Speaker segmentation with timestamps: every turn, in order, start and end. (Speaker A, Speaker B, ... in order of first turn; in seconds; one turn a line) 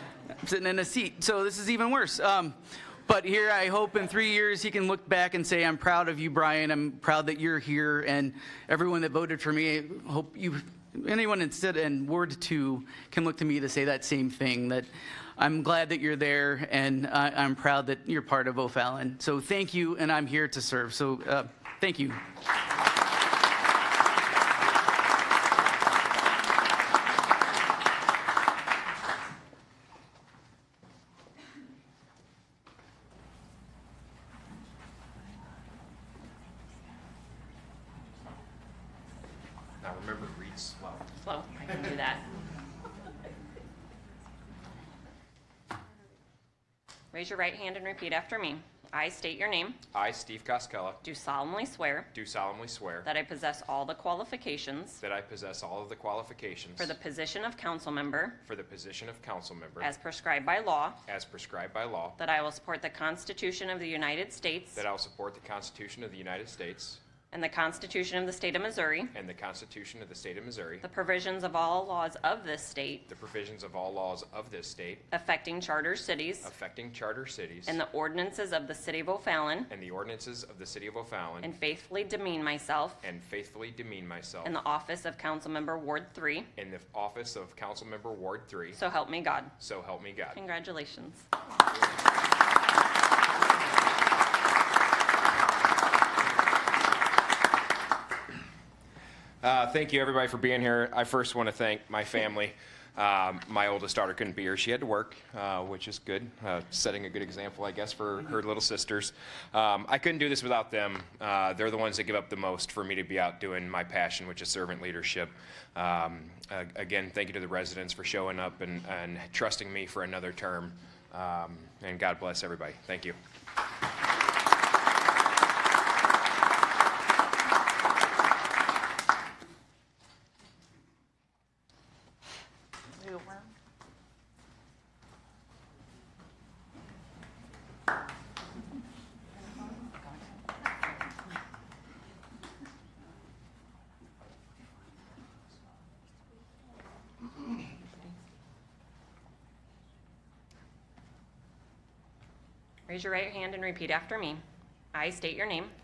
Speaker A: 0.3-22.2
Speaker B: 39.8-41.1
Speaker C: 41.2-42.2
Speaker C: 47.1-49.8
Speaker B: 49.9-51.0
Speaker C: 51.0-52.1
Speaker B: 52.1-53.1
Speaker C: 53.0-55.0
Speaker B: 55.0-57.0
Speaker C: 56.8-58.4
Speaker B: 58.4-59.9
Speaker C: 59.8-61.0
Speaker B: 61.1-62.2
Speaker C: 62.2-64.8
Speaker B: 64.8-67.0
Speaker C: 67.3-69.1
Speaker B: 69.1-70.9
Speaker C: 70.8-73.1
Speaker B: 73.1-75.1
Speaker C: 75.1-76.5
Speaker B: 76.4-77.8
Speaker C: 77.7-79.7
Speaker B: 79.7-81.5
Speaker C: 81.4-83.0
Speaker B: 83.0-84.5
Speaker C: 84.4-86.5
Speaker B: 86.6-88.8
Speaker C: 88.8-89.5
Speaker B: 89.6-90.4
Speaker C: 90.3-91.3
Speaker B: 99.4-123.2
Speaker C: 152.9-155.7